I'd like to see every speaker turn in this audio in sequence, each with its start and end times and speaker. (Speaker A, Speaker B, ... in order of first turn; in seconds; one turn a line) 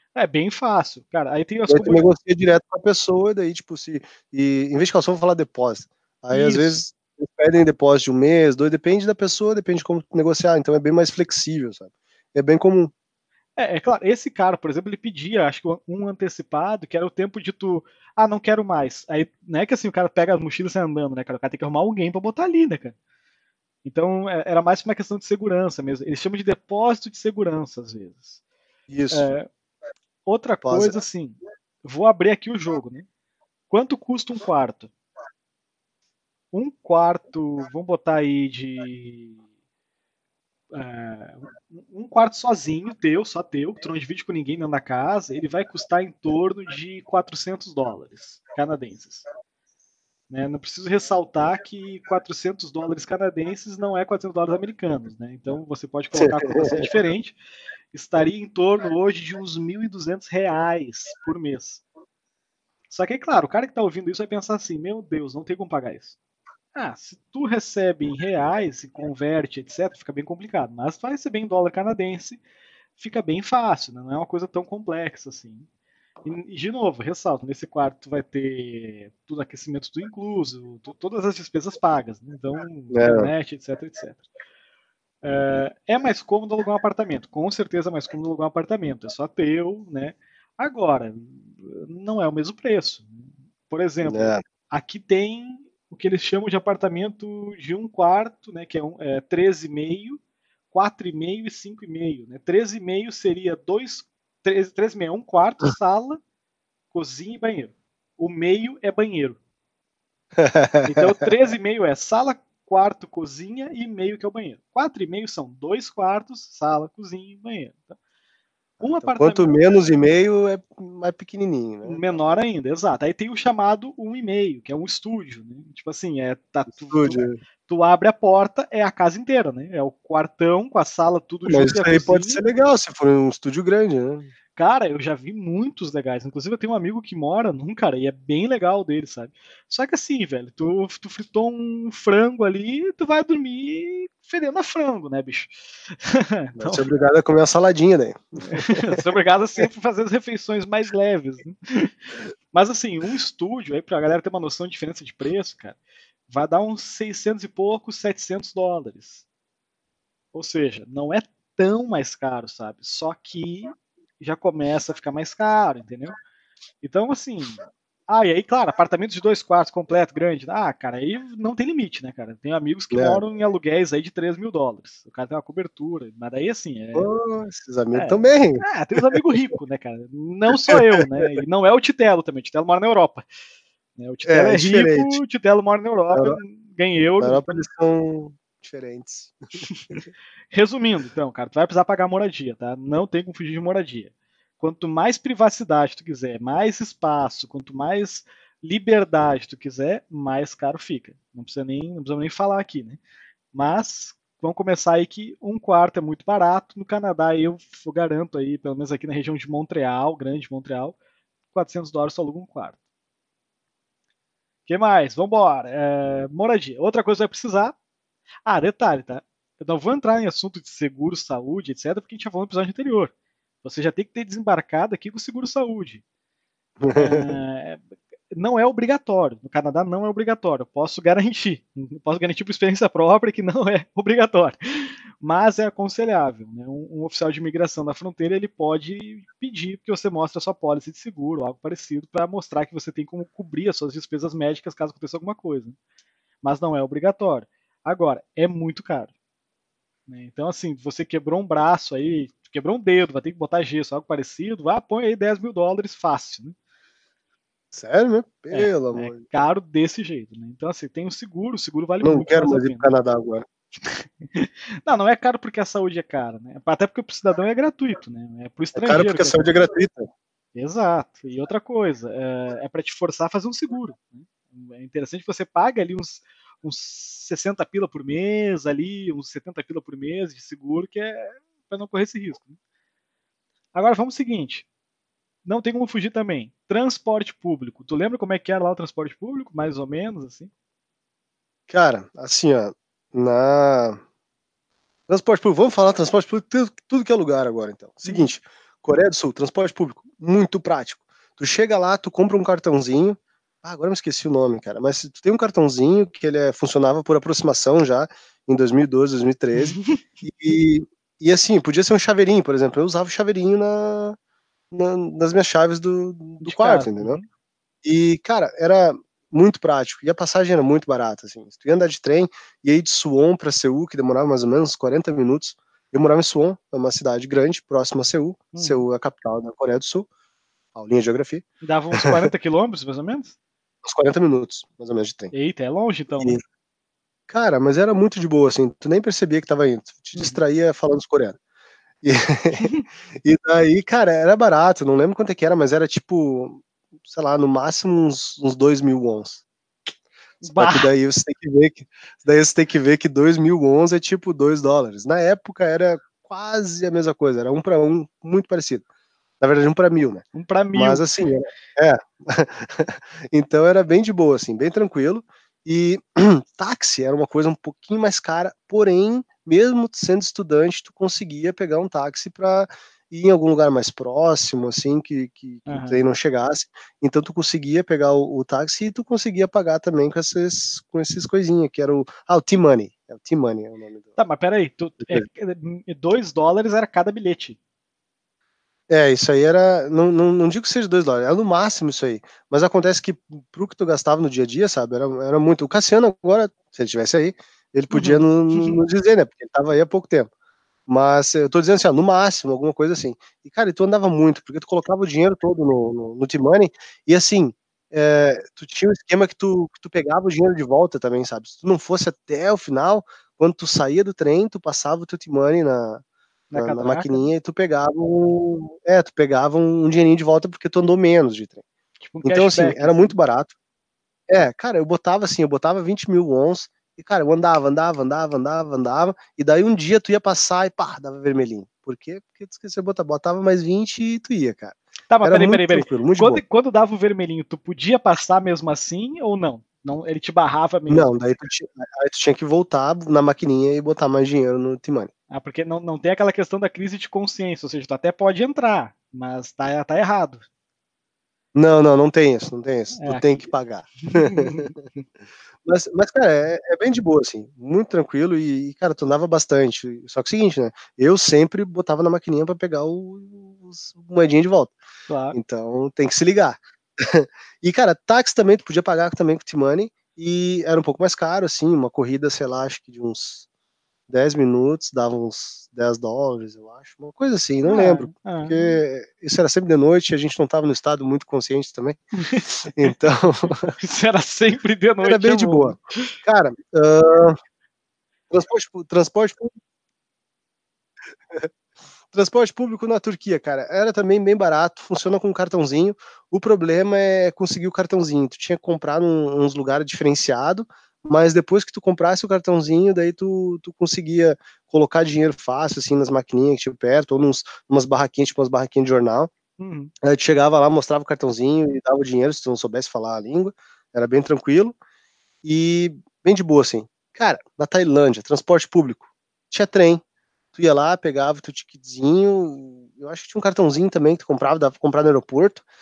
Speaker A: 0.1-2.1
Speaker B: 1.7-12.9
Speaker A: 6.3-6.8
Speaker A: 13.6-22.9
Speaker A: 23.8-28.4
Speaker B: 28.9-29.3
Speaker A: 29.1-29.5
Speaker A: 30.2-33.0
Speaker B: 30.6-31.0
Speaker A: 33.7-34.9
Speaker A: 36.5-39.4
Speaker A: 40.7-49.2
Speaker A: 50.3-57.4
Speaker B: 56.2-56.9
Speaker A: 57.9-61.8
Speaker A: 62.9-66.2
Speaker A: 66.7-72.4
Speaker A: 73.0-75.7
Speaker A: 76.2-84.2
Speaker B: 82.9-83.3
Speaker A: 85.2-93.1
Speaker A: 93.7-100.2
Speaker B: 94.0-94.4
Speaker A: 100.7-106.2
Speaker A: 106.9-109.4
Speaker B: 110.4-111.1
Speaker A: 110.8-118.0
Speaker B: 118.8-122.0
Speaker A: 118.8-119.5
Speaker A: 121.8-132.4
Speaker B: 126.8-127.4
Speaker B: 131.5-134.3
Speaker A: 134.6-146.8
Speaker B: 146.6-149.0
Speaker A: 148.4-151.9
Speaker A: 152.5-155.8
Speaker A: 156.3-159.2
Speaker A: 160.3-166.1
Speaker A: 166.8-177.1
Speaker B: 172.9-173.2
Speaker B: 176.9-178.6
Speaker A: 177.9-183.2
Speaker B: 180.6-181.2
Speaker A: 184.0-187.6
Speaker B: 184.2-185.2
Speaker B: 186.1-186.4
Speaker B: 187.2-189.4
Speaker A: 189.6-203.0
Speaker A: 203.5-210.9
Speaker A: 211.5-212.8
Speaker A: 214.7-217.7
Speaker A: 218.4-223.1
Speaker A: 223.6-226.0
Speaker B: 226.8-227.3
Speaker A: 226.9-245.8
Speaker A: 246.4-249.1
Speaker A: 250.1-256.5
Speaker B: 257.7-259.2
Speaker A: 258.5-262.9
Speaker B: 262.0-263.4
Speaker A: 263.8-269.5
Speaker B: 268.7-270.1
Speaker A: 270.5-282.6
Speaker A: 283.7-284.6
Speaker A: 285.4-290.5
Speaker B: 291.7-294.0
Speaker B: 295.1-314.2
Speaker A: 309.6-310.0
Speaker B: 314.7-317.2
Speaker A: 316.4-317.2
Speaker B: 317.8-330.1
Speaker A: 328.5-328.8
Speaker B: 330.7-331.4
Speaker A: 331.6-333.3
Speaker B: 333.8-335.3
Speaker A: 335.3-336.4
Speaker B: 337.3-341.4
Speaker A: 340.1-340.4
Speaker B: 342.0-349.4
Speaker A: 342.5-342.8
Speaker A: 350.4-350.9
Speaker B: 350.4-358.8
Speaker B: 359.4-384.1
Speaker A: 360.3-361.1
Speaker A: 375.6-376.0
Speaker A: 384.2-387.6
Speaker B: 388.9-400.3
Speaker A: 397.9-398.8
Speaker B: 400.9-416.0
Speaker A: 416.5-417.3
Speaker B: 416.5-421.6
Speaker A: 422.0-423.1
Speaker B: 422.2-423.5
Speaker B: 424.3-436.4
Speaker A: 435.1-441.3
Speaker B: 440.9-445.1
Speaker A: 445.3-450.4
Speaker B: 451.5-454.8
Speaker A: 452.9-453.5
Speaker A: 454.0-454.8
Speaker B: 455.6-464.8
Speaker A: 465.1-465.4
Speaker B: 465.3-473.4
Speaker B: 474.1-483.7
Speaker A: 477.6-478.8
Speaker A: 482.2-482.4
Speaker A: 483.8-486.1
Speaker B: 485.0-487.4
Speaker B: 488.3-489.5
Speaker B: 492.1-509.3
Speaker A: 509.6-509.9
Speaker B: 510.0-514.8
Speaker B: 515.4-520.0
Speaker B: 520.5-525.6